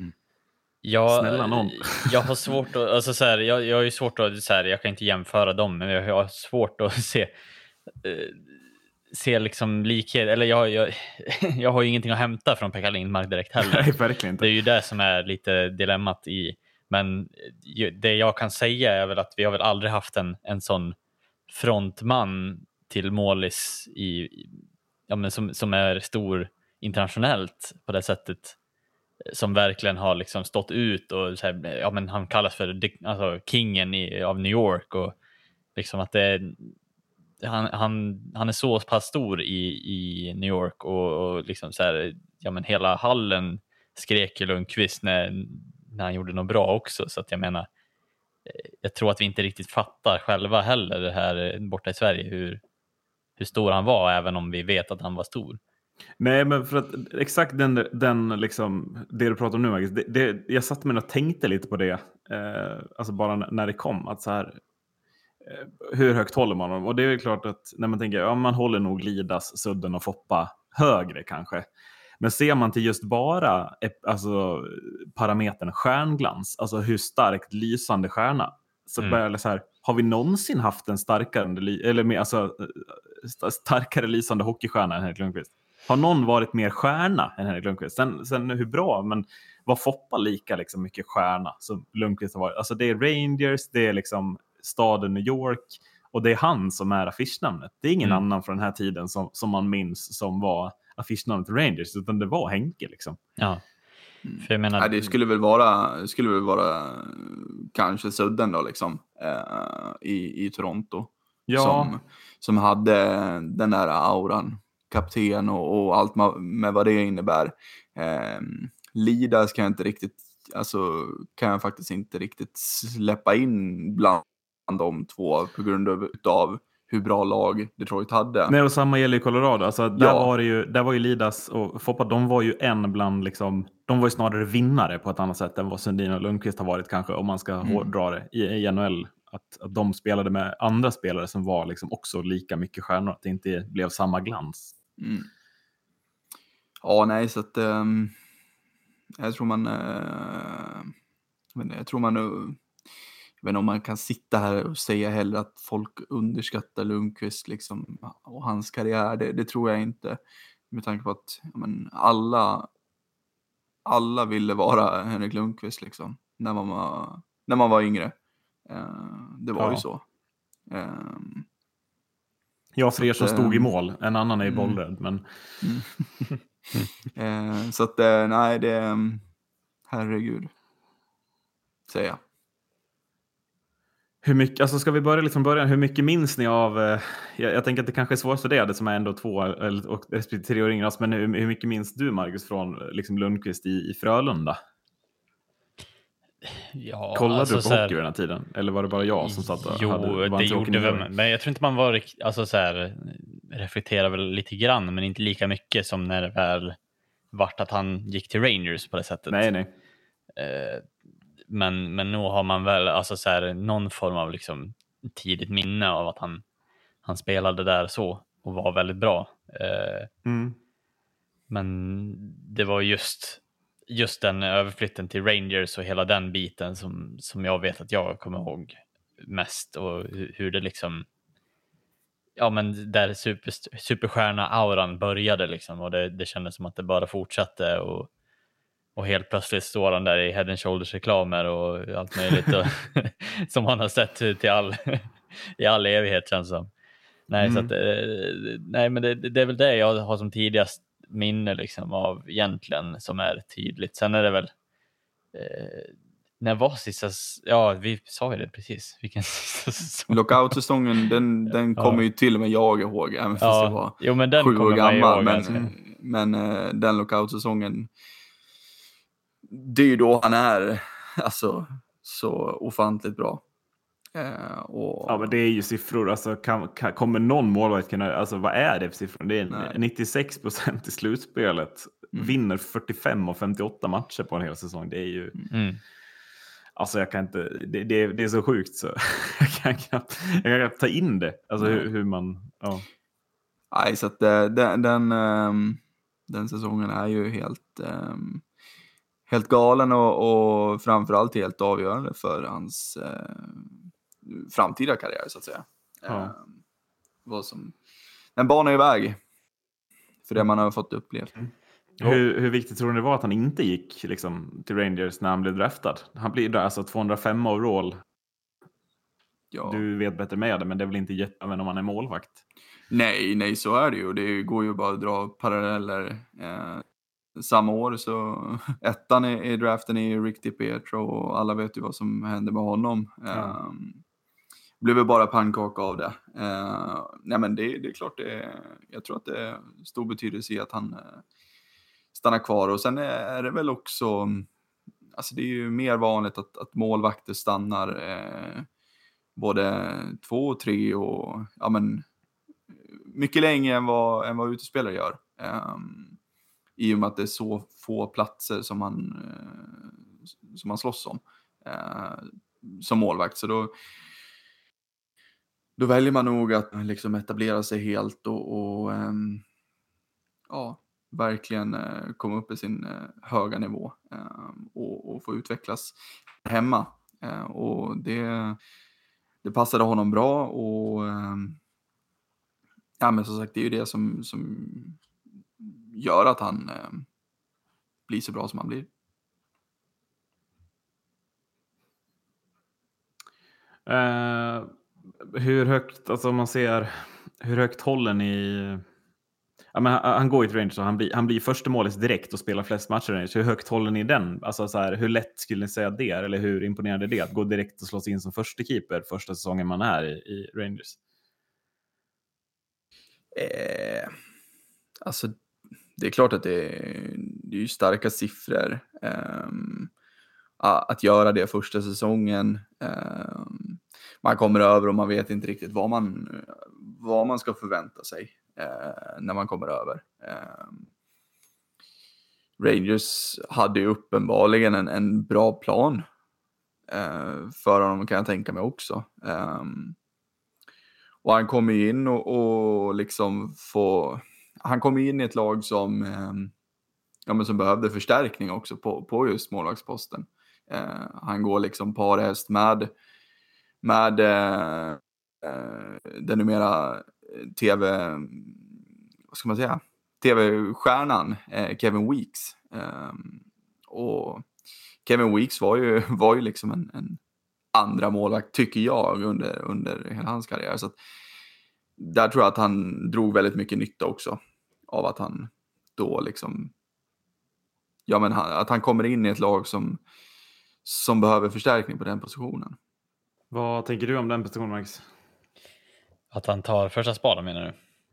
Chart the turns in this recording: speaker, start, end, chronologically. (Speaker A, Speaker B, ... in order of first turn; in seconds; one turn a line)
Speaker A: 0.8-7.3
Speaker B: 1.1-2.3
Speaker A: 8.0-8.5
Speaker A: 9.1-21.0
Speaker B: 13.6-14.5
Speaker A: 21.5-28.6
Speaker A: 29.3-35.1
Speaker A: 35.8-36.8
Speaker A: 37.4-47.7
Speaker A: 48.5-52.6
Speaker A: 53.4-55.6
Speaker B: 56.2-64.6
Speaker B: 65.4-71.7
Speaker B: 72.2-103.2
Speaker A: 103.4-103.6
Speaker C: 104.2-128.6
Speaker A: 104.4-105.1
Speaker B: 111.5-112.0
Speaker B: 128.5-144.8
Speaker C: 129.9-130.3
Speaker C: 137.6-137.9
Speaker C: 145.0-145.3
Speaker C: 146.8-148.2
Speaker C: 149.2-150.9
Speaker C: 151.6-152.6
Speaker C: 153.4-162.7
Speaker C: 163.9-168.2
Speaker C: 168.7-170.0
Speaker B: 169.6-169.8
Speaker C: 170.7-171.5
Speaker B: 172.8-175.2
Speaker C: 173.0-173.7
Speaker C: 174.4-174.8
Speaker C: 175.6-176.3
Speaker C: 177.1-179.2
Speaker C: 179.9-180.5
Speaker C: 181.9-182.2
Speaker B: 184.2-194.6
Speaker A: 196.5-198.0
Speaker B: 197.2-201.1
Speaker A: 199.2-206.8
Speaker A: 207.3-209.5
Speaker B: 209.3-209.7
Speaker A: 210.4-210.9
Speaker A: 211.5-216.4
Speaker A: 217.1-220.1
Speaker B: 220.3-220.6
Speaker A: 221.5-231.1
Speaker A: 232.4-238.1
Speaker A: 239.0-246.7
Speaker A: 247.3-254.5
Speaker B: 247.4-247.7
Speaker A: 255.3-260.5
Speaker C: 260.1-267.9
Speaker A: 261.8-262.0
Speaker A: 263.4-265.5
Speaker B: 265.5-265.7
Speaker C: 269.5-273.4
Speaker C: 274.1-275.4
Speaker B: 275.1-285.4
Speaker C: 279.5-279.8
Speaker A: 285.5-285.8
Speaker B: 286.8-292.9
Speaker C: 291.6-291.9
Speaker C: 293.7-298.4
Speaker C: 299.3-306.6
Speaker B: 306.1-306.3
Speaker C: 307.2-307.8
Speaker C: 308.4-309.2
Speaker C: 310.3-311.3
Speaker B: 311.4-318.0
Speaker C: 319.5-319.8
Speaker B: 319.6-322.4
Speaker C: 322.9-326.9
Speaker C: 327.4-334.0
Speaker C: 334.8-341.2
Speaker C: 342.1-344.5
Speaker C: 345.2-348.7
Speaker C: 349.4-352.1
Speaker C: 352.7-356.2
Speaker C: 356.8-363.7
Speaker C: 365.8-369.4
Speaker C: 370.5-378.6
Speaker C: 379.4-381.6
Speaker C: 383.0-385.0
Speaker C: 385.6-387.1
Speaker C: 388.1-388.9
Speaker B: 393.9-394.7
Speaker B: 395.3-398.8
Speaker B: 399.7-411.0
Speaker C: 413.3-414.1
Speaker C: 415.0-415.3
Speaker C: 416.0-419.9
Speaker C: 420.6-430.9
Speaker C: 432.6-436.1
Speaker C: 436.9-440.0
Speaker C: 441.2-446.5
Speaker C: 447.3-452.9
Speaker C: 453.8-458.8
Speaker C: 459.3-464.5
Speaker C: 465.1-467.2
Speaker C: 467.7-470.9
Speaker C: 472.0-476.7
Speaker C: 478.1-480.0
Speaker C: 480.9-482.8
Speaker B: 483.5-485.1
Speaker A: 486.3-487.8